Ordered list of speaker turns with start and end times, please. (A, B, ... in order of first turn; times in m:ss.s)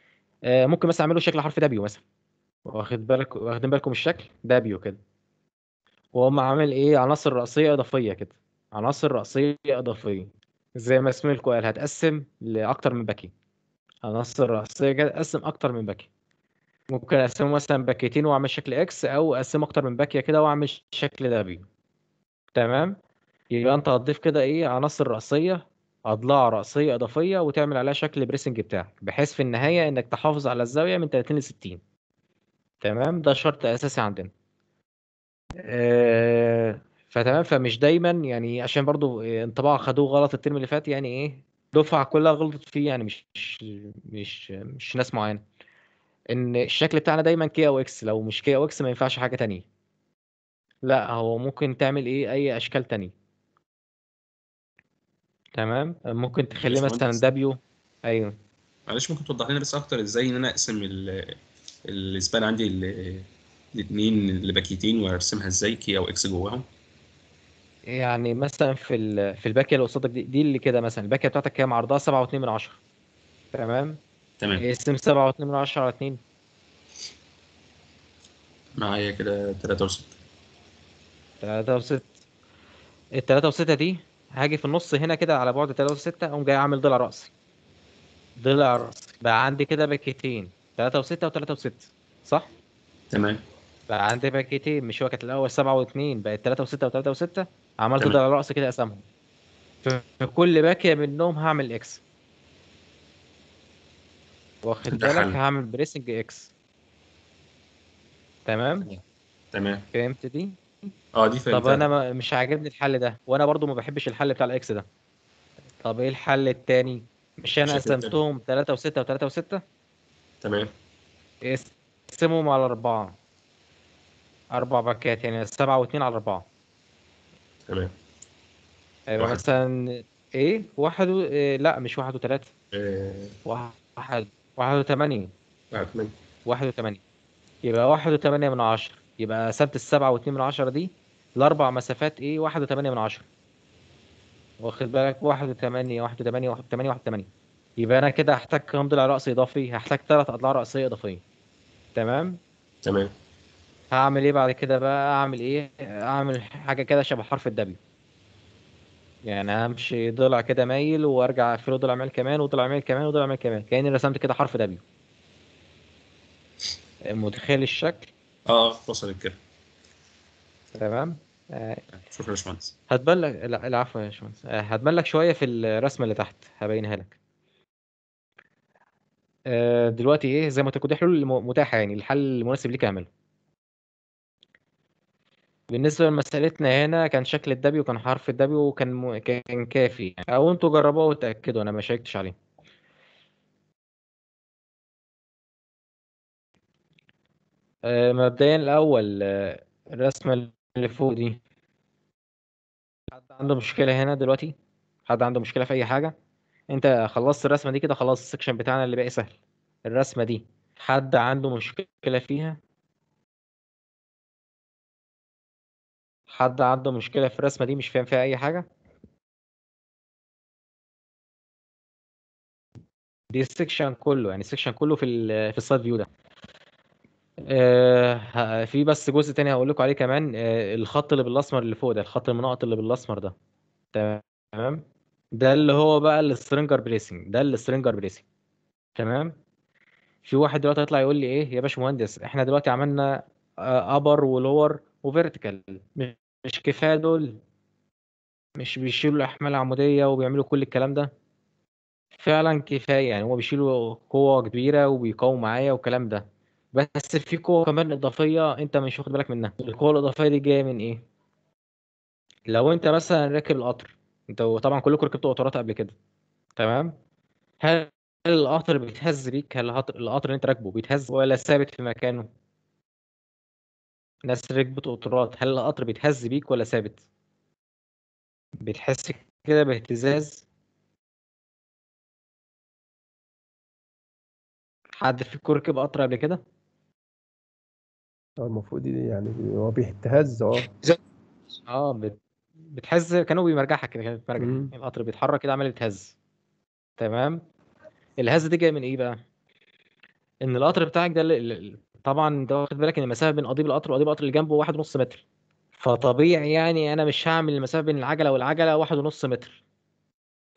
0:00.5-0:02.0 A
0:02.7-0:05.0 A
0:06.1-0:13.3 A
0:14.0-0:16.1 A
0:16.9-0:21.6 A
0:22.6-0:23.0 A
0:23.5-0:31.8 A
0:32.8-0:34.3 A
0:35.6-0:45.4 A
0:46.3-0:49.6 A
0:50.8-0:53.1 A
0:55.6-0:58.4 A
0:56.7-0:57.2 B
0:58.9-1:06.6 B
1:07.9-1:12.8 A
1:13.5-1:14.0 A
1:14.6-1:16.2 A
1:18.8-1:20.1 B
1:21.4-1:22.2 A
1:23.2-1:27.3 A
1:28.4-1:32.5 A
1:33.1-1:33.4 B
1:33.9-1:39.0 A
1:39.8-1:42.0 A
1:44.6-1:46.5 A
1:44.9-1:45.4 B
1:48.5-1:48.9 A
1:49.5-1:49.9 B
1:49.9-1:50.6 A
1:51.1-1:51.9 B
1:51.5-1:54.8 A
1:55.8-1:59.6 A
1:57.7-1:58.2 B
2:00.4-2:00.7 B
2:01.4-2:03.2 A
2:04.5-2:06.5 A
2:07.7-2:07.9 B
2:09.1-2:12.5 A
2:09.2-2:09.4 B
2:12.7-2:13.4 B
2:13.4-2:15.3 A
2:15.7-2:16.1 B
2:16.5-2:17.0 A
2:17.6-2:23.2 A
2:24.6-2:31.2 A
2:32.0-2:32.4 A
2:32.8-2:33.1 B
2:33.9-2:37.8 A
2:39.2-2:44.8 A
2:47.1-2:48.1 A
2:48.5-2:49.4 B
2:50.8-2:51.8 A
2:52.1-2:52.7 B
2:52.9-2:57.2 A
2:59.5-3:03.1 A
3:05.7-3:12.4 A
3:17.9-3:21.4 A
3:23.1-3:24.6 A
3:25.1-3:26.1 A
3:26.7-3:29.3 A
3:29.9-3:32.6 A
3:36.3-3:38.7 A
3:43.3-3:46.1 A
3:47.5-3:53.3 A
3:53.9-3:54.8 A
3:55.4-3:58.2 A
3:59.0-3:59.3 A
4:00.3-4:07.4 A
4:08.6-4:11.1 A
4:12.2-4:21.0 A
4:22.5-4:26.0 A
4:26.6-4:27.0 A
4:27.6-4:32.3 A
4:34.3-4:37.0 A
4:38.6-4:40.4 A
4:45.0-4:46.4 A
4:48.4-4:50.7 C
4:51.7-4:52.2 A
4:52.7-4:56.1 A
4:54.4-4:54.7 C
4:57.0-4:57.4 A
4:58.2-4:59.2 A
5:00.4-5:05.2 A
5:05.8-5:09.6 A